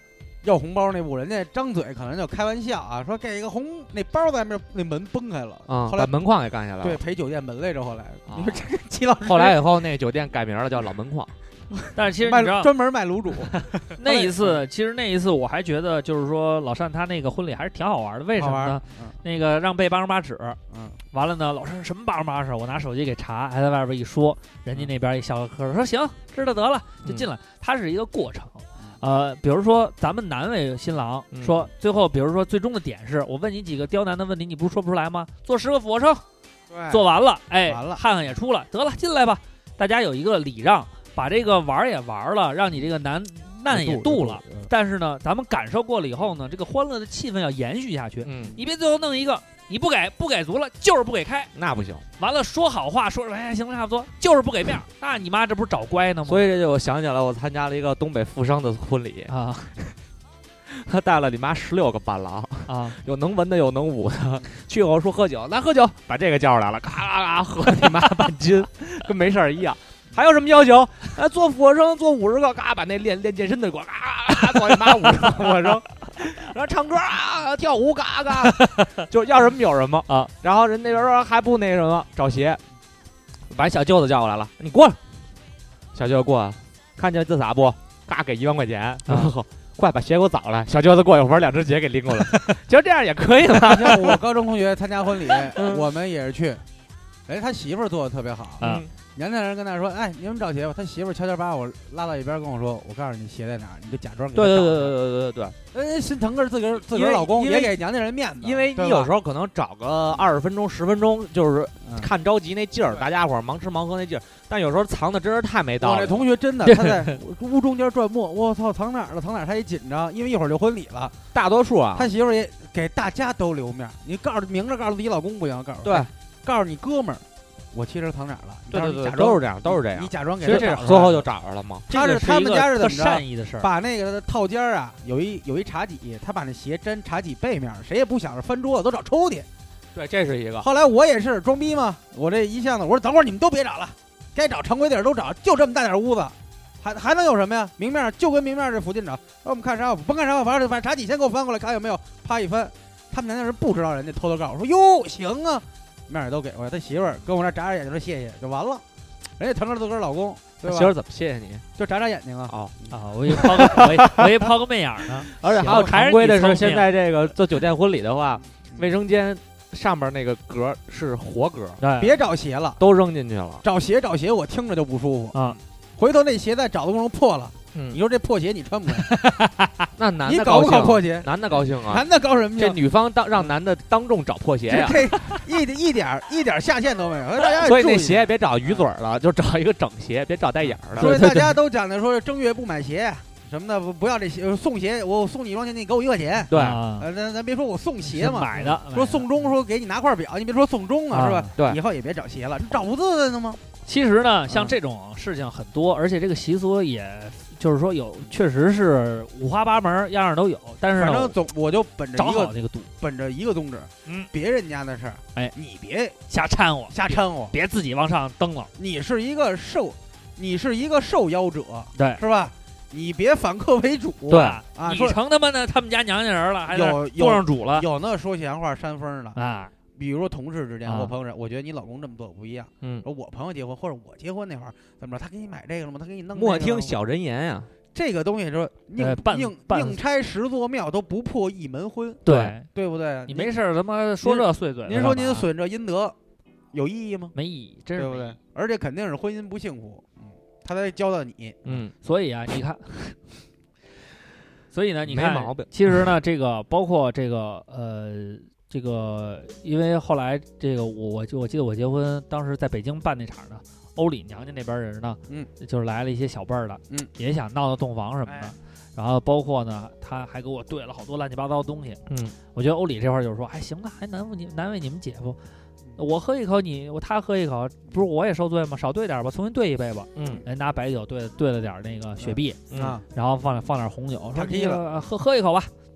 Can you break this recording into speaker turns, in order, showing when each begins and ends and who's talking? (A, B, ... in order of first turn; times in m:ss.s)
0:00.4-0:06.1 A
0:05.7-0:07.0 B
0:06.8-0:09.6 A
0:08.3-0:08.6 B
0:09.2-0:11.3 B
0:11.9-0:12.7 C
0:12.2-0:14.6 A
0:14.0-0:20.6 C
0:18.4-0:19.2 A
0:20.7-0:21.0 A
0:21.1-0:36.2 C
0:31.3-0:31.6 B
0:36.7-0:37.0 A
0:36.9-0:51.5 C
0:37.6-0:38.0 A
0:43.7-0:44.7 A
0:48.2-0:48.6 B
0:51.5-0:52.0 B
0:52.2-0:56.4 C
0:56.3-0:59.9 B
0:59.3-0:59.7 C
1:00.6-1:22.6 B
1:02.7-1:03.0 C
1:15.4-1:15.6 A
1:18.4-1:19.0 C
1:23.5-1:25.0 B
1:25.9-1:34.2 B
1:29.1-1:29.3 C
1:33.5-1:36.6 A
1:35.2-1:35.9 B
1:37.3-1:45.0 A
1:38.6-1:38.9 B
1:44.3-1:45.6 B
1:45.7-1:49.1 A
1:46.8-1:47.8 B
1:48.4-1:56.2 B
1:51.8-1:52.1 A
1:55.8-2:01.2 A
1:56.6-1:57.2 C
2:01.3-2:02.1 B
2:01.9-2:11.3 A
2:05.8-2:06.1 B
2:08.7-2:11.9 B
2:10.4-2:11.1 C
2:11.9-2:13.7 C
2:11.9-2:19.5 A
2:19.9-2:20.7 B
2:20.6-2:38.8 A
2:39.4-2:40.9 A
2:40.6-2:41.6 B
2:41.8-2:43.7 A
2:42.9-2:46.9 C
2:43.3-2:44.4 B
2:45.3-2:51.8 B
2:45.4-2:45.9 A
2:51.8-2:52.1 C
2:52.0-2:52.8 A
2:52.8-2:53.6 B
2:53.6-2:59.2 A
2:57.7-2:58.0 B
2:58.9-2:59.9 C
3:00.0-3:02.0 B
3:00.2-3:02.8 A
3:02.6-3:05.3 B
3:04.7-3:08.9 A
3:07.5-3:11.1 B
3:10.9-3:23.6 A
3:11.0-3:11.5 C
3:16.5-3:16.8 B
3:16.5-3:17.1 C
3:18.1-3:19.2 C
3:21.1-3:21.5 C
3:23.8-3:31.3 C
3:24.5-3:24.8 A
3:30.9-3:36.2 A
3:32.2-3:32.9 C
3:36.3-3:38.7 C
3:36.9-3:37.5 A
3:38.8-3:45.2 A
3:42.0-3:42.2 C
3:44.3-3:44.6 B
3:44.3-3:47.9 C
3:46.7-3:49.4 A
3:49.3-3:49.7 C
3:49.9-3:56.9 A
3:50.8-3:51.1 C
3:56.3-3:57.7 B
3:57.9-4:03.5 A
3:59.0-4:00.0 C
4:02.2-4:02.7 C
4:02.3-4:02.5 B
4:03.3-4:05.5 C
4:04.2-4:06.2 A
4:06.7-4:07.3 A
4:07.3-4:08.3 C
4:08.0-4:11.7 A
4:11.6-4:11.9 B
4:12.0-4:13.2 C
4:14.7-4:35.4 C
4:15.0-4:15.7 B
4:28.2-4:28.5 A
4:32.1-4:32.3 B
4:36.0-4:45.7 C
4:40.2-4:40.4 B
4:42.2-4:43.0 A
4:42.7-4:43.0 B
4:44.3-4:44.8 A